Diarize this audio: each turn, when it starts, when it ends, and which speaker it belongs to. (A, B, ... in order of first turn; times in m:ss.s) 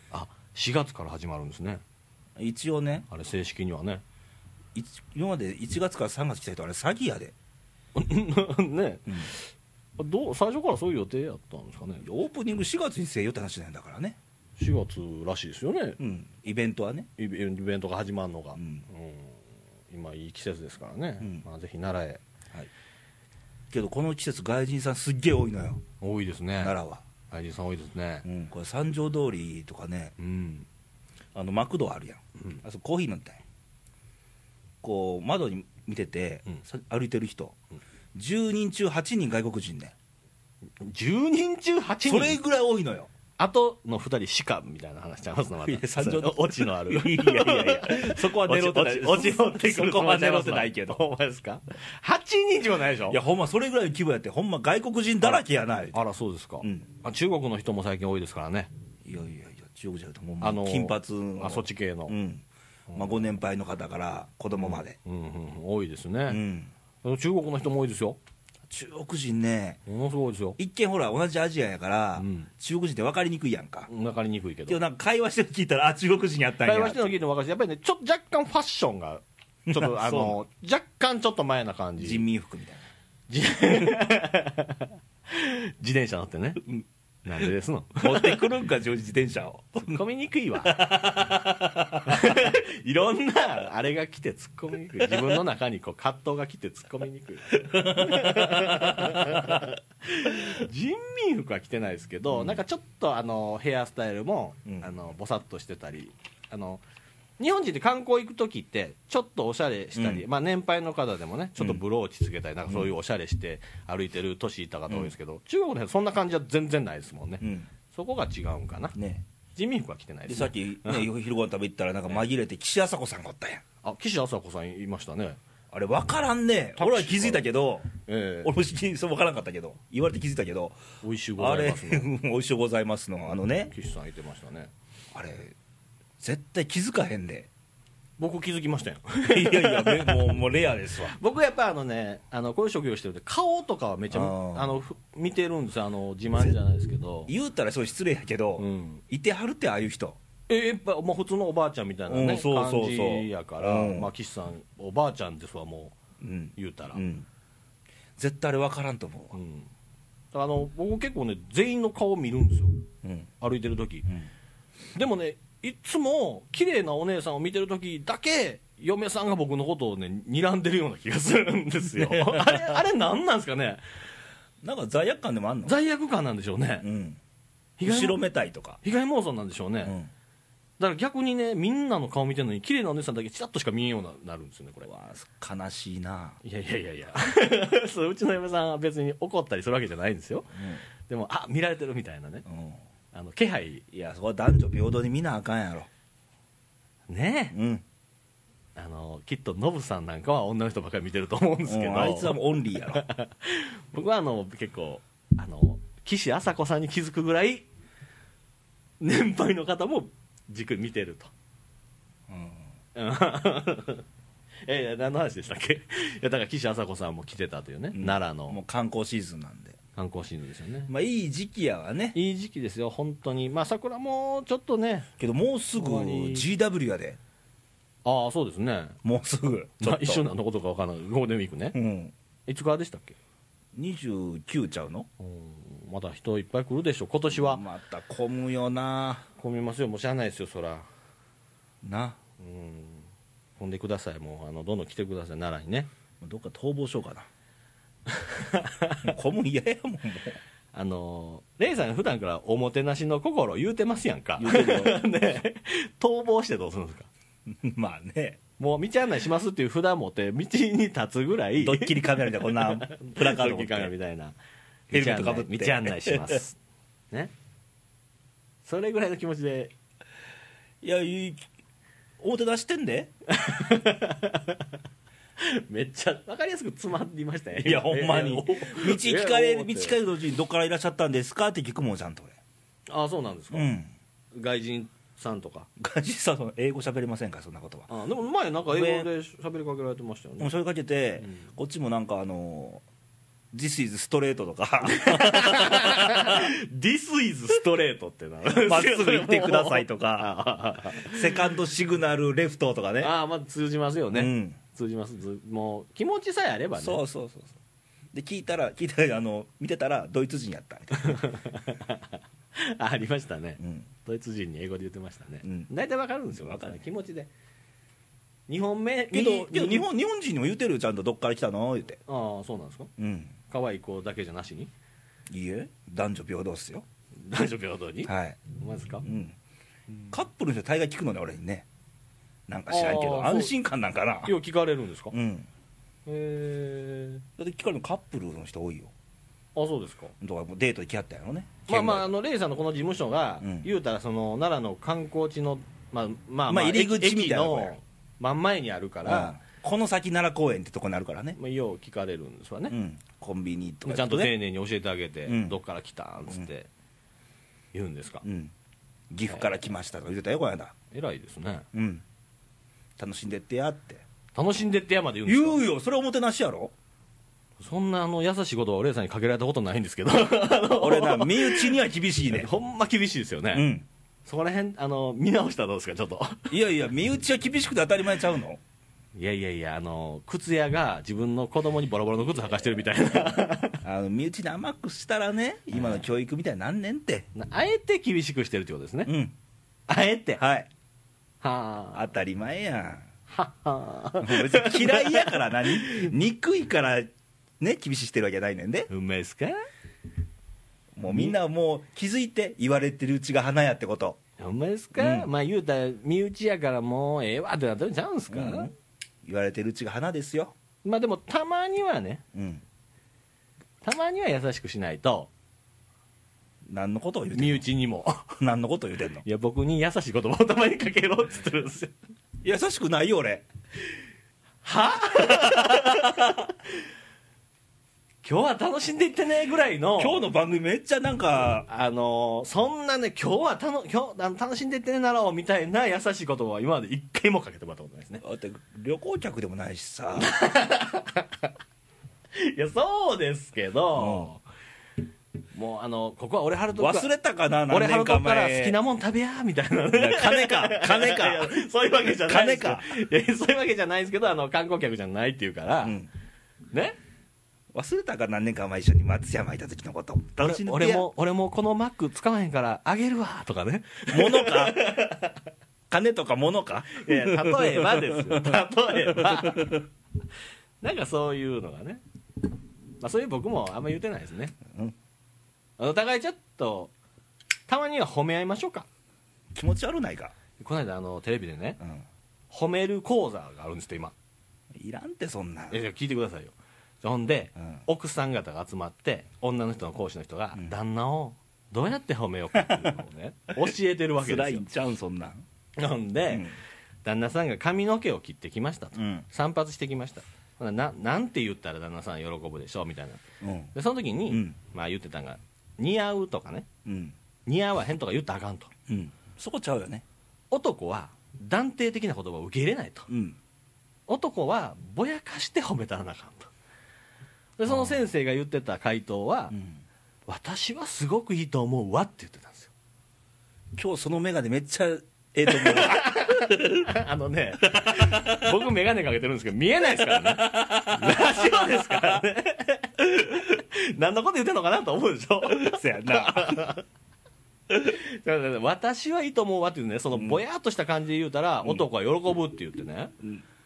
0:00.1-0:01.8 A
0:02.4-0:03.1 B
0:03.1-0:04.0 A
0:04.8-0:07.3 B
0:08.0-0:12.1 A
0:12.0-0:14.2 B
0:14.6-0:16.0 A
0:16.0-0:17.1 B
0:17.2-0:22.2 A
0:18.6-0:18.8 B
0:23.7-0:25.8 B
0:26.0-0:26.8 A
0:26.6-0:27.0 B
0:27.3-0:28.3 A
0:28.2-0:30.1 B
0:30.2-0:30.7 A
0:31.3-0:33.4 B
0:34.8-0:37.6 B
0:38.1-0:39.9 B
0:40.8-0:42.4 A
0:42.1-0:43.1 B
0:43.4-0:53.2 A
0:45.6-0:51.0 B
0:53.1-0:56.0 B
0:55.2-0:58.7 A
0:56.6-0:56.9 B
0:59.0-1:05.0 B
1:00.4-1:02.2 A
1:02.9-1:03.3 A
1:04.6-1:06.4 A
1:06.3-1:06.7 B
1:07.0-1:08.2 A
1:08.7-1:09.8 B
1:09.9-1:10.6 A
1:10.6-1:13.9 B
1:12.2-1:12.5 A
1:13.9-1:14.8 A
1:14.7-1:17.2 B
1:16.6-1:22.2 A
1:19.7-1:20.4 B
1:22.0-1:22.9 B
1:23.3-1:26.7 A
1:27.2-1:28.5 A
1:28.0-1:30.0 B
1:29.8-1:31.2 A
1:30.6-1:32.5 B
1:32.0-1:46.8 A
1:35.1-1:35.4 B
1:37.6-1:39.6 B
1:42.3-1:42.6 B
1:44.7-1:44.9 B
1:47.4-1:59.0 A
1:50.0-1:50.2 B
1:57.4-1:57.7 B
1:59.0-1:59.2 B
1:59.6-2:01.1 A
2:00.3-2:03.6 B
2:03.8-2:05.4 A
2:05.7-2:07.9 B
2:06.8-2:07.4 A
2:08.1-2:08.5 A
2:08.4-2:10.8 B
2:11.0-2:12.1 A
2:11.4-2:13.7 B
2:13.7-2:14.7 A
2:15.1-2:15.6 B
2:16.2-2:17.5 B
2:18.2-2:20.3 A
2:19.2-2:21.2 B
2:21.0-2:27.3 A
2:24.1-2:24.8 B
2:27.3-2:30.2 B
2:28.6-2:29.0 A
2:30.5-2:36.0 A
2:32.1-2:34.1 B
2:36.2-2:37.3 B
2:36.6-2:37.0 A
2:38.2-2:39.4 B
2:39.3-2:39.7 A
2:40.3-2:42.9 A
2:43.0-2:43.3 B
2:43.4-2:44.1 A
2:45.0-2:53.8 A
2:52.0-2:52.8 B
2:54.6-2:55.7 B
2:55.6-2:56.9 A
2:56.8-2:57.2 B
2:57.8-2:58.2 A
2:57.8-2:58.8 B
2:58.8-3:00.0 A
2:59.8-3:00.1 B
3:00.8-3:04.9 A
3:04.9-3:06.4 B
3:06.4-3:12.5 A
3:10.6-3:10.8 B
3:12.5-3:12.8 B
3:13.1-3:13.8 A
3:13.9-3:15.9 B
3:17.1-3:17.6 A
3:17.5-3:17.8 B
3:18.8-3:27.7 A
3:21.7-3:23.0 B
3:29.0-3:31.3 A
3:32.3-3:32.7 B
3:33.0-3:34.0 A
3:34.6-3:38.6 A
3:37.9-3:39.8 B
3:40.0-3:40.9 A
3:40.9-3:42.2 B
3:42.1-3:45.1 A
3:45.2-3:47.2 B
3:45.8-3:46.5 A
3:48.0-3:49.0 A
3:49.0-3:50.2 B
3:49.8-3:51.8 A
3:51.7-3:52.1 B
3:52.5-3:53.2 A
3:53.8-3:55.1 B
3:55.2-3:57.6 A
3:57.3-3:59.3 B
3:59.4-4:00.9 A
4:01.8-4:02.2 B
4:02.4-4:03.1 A
4:03.6-4:05.9 A
4:06.2-4:07.3 B
4:08.1-4:09.1 A
4:09.0-4:10.4 B
4:10.7-4:17.1 A
4:14.4-4:15.0 B
4:17.5-4:18.4 B
4:18.6-4:24.4 A
4:21.6-4:23.9 B
4:24.9-4:26.4 B
4:24.9-4:26.6 A
4:28.6-4:29.7 A
4:30.8-4:31.5 B
4:32.2-4:33.1 B
4:33.3-4:34.7 A
4:35.4-4:40.0 A
4:37.6-4:42.4 B
4:42.9-4:43.7 A
4:43.5-4:43.9 B
4:44.3-4:45.7 A
4:45.8-4:47.9 B
4:47.9-4:50.5 A
4:48.7-4:49.1 B
4:50.4-4:52.8 B
4:53.5-4:56.5 B
4:54.9-5:01.3 A
4:58.5-5:00.3 B
5:00.9-5:03.1 B
5:03.0-5:07.0 A
5:04.1-5:04.6 B
5:06.8-5:07.6 B
5:08.1-5:11.2 B
5:10.9-5:17.3 A
5:13.6-5:13.9 B
5:15.4-5:15.7 B
5:16.4-5:16.8 B
5:18.5-5:19.9 A
5:19.1-5:22.0 B
5:22.1-5:22.9 A
5:23.0-5:23.4 B
5:23.5-5:24.7 A
5:25.3-5:26.9 B
5:27.2-5:29.1 A
5:28.0-5:28.4 B
5:29.0-5:29.4 B
5:30.1-5:31.7 B
5:32.5-5:34.3 B
5:32.7-5:33.5 A
5:34.2-5:35.2 A
5:35.1-5:35.5 B
5:36.1-5:37.2 A
5:37.4-5:38.9 B
5:39.6-5:40.1 A
5:40.2-5:42.1 B
5:41.7-5:49.4 A
5:43.4-5:43.7 B
5:46.5-5:47.8 B
5:49.0-5:51.4 B
5:51.4-5:52.8 A
5:52.7-5:54.3 B
5:53.8-5:56.7 A
5:55.3-5:55.6 B
5:57.7-5:58.2 A
5:58.2-5:58.5 B
5:59.1-6:00.8 B
5:59.3-5:59.6 A
6:00.9-6:01.7 A
6:01.7-6:02.0 B
6:03.0-6:04.0 B
6:04.3-6:05.6 A
6:05.3-6:06.7 B
6:07.6-6:11.7 A
6:10.8-6:12.5 B
6:12.3-6:13.7 A
6:13.5-6:13.9 B
6:14.2-6:16.5 A
6:16.5-6:18.6 B
6:19.2-6:23.8 A
6:23.8-6:27.3 B
6:25.7-6:26.1 A
6:27.4-6:29.1 A
6:29.1-6:29.4 B
6:29.9-6:30.4 A
6:30.4-6:30.7 B
6:31.4-6:32.1 A
6:31.9-6:33.1 B
6:33.3-6:36.1 A
6:34.2-6:38.9 B
6:38.9-6:39.6 A
6:41.0-6:44.2 B
6:41.0-6:41.4 A
6:44.4-6:48.7 A
6:45.0-6:45.3 B
6:48.3-6:48.7 B
6:49.2-6:50.5 B
6:50.8-6:52.2 A
6:52.3-6:52.6 B
6:53.8-6:55.3 A
6:56.7-6:57.6 B
6:57.3-6:58.4 A
6:58.4-6:59.2 B
6:59.2-7:02.0 A
7:02.4-7:03.4 B
7:04.6-7:06.3 A
7:05.2-7:06.5 B
7:08.2-7:10.3 A
7:10.0-7:11.7 B
7:11.7-7:18.2 A
7:18.2-7:20.3 B
7:20.2-7:21.5 A
7:22.4-7:24.4 A
7:24.0-7:24.3 B
7:25.5-7:27.1 A
7:26.8-7:28.8 B
7:27.7-7:36.0 A
7:29.9-7:33.0 B
7:35.8-7:36.1 B
7:36.7-7:37.0 A
7:37.7-7:41.1 B
7:40.4-7:45.4 A
7:44.1-7:44.9 B
7:45.9-7:49.8 B
7:46.9-7:49.8 A
7:50.8-7:52.0 A
7:53.0-7:54.6 A
7:54.7-7:55.0 B
7:55.8-7:56.9 A
7:57.7-7:58.9 A
7:59.5-8:00.3 B
8:00.6-8:01.8 A
8:02.5-8:04.1 A
8:04.7-8:05.8 B
8:05.7-8:14.6 A
8:12.6-8:12.9 B
8:13.7-8:15.4 B
8:15.8-8:16.5 A
8:16.3-8:16.6 B
8:17.0-8:23.2 A
8:19.0-8:19.3 B
8:23.4-8:23.7 B
8:23.7-8:26.7 A
8:24.3-8:24.6 B
8:26.9-8:27.2 B
8:27.5-8:28.7 A
8:28.9-8:30.0 B
8:30.5-8:33.1 A
8:33.1-8:33.4 B
8:34.1-8:36.5 A
8:37.6-8:39.6 A
8:37.7-8:38.0 B
8:39.5-8:39.8 B
8:40.3-8:42.7 A
8:43.8-8:47.0 B
8:45.5-8:56.8 A
8:47.8-8:48.6 B
8:50.0-8:52.2 B
8:55.4-8:56.7 B
8:57.7-9:03.2 A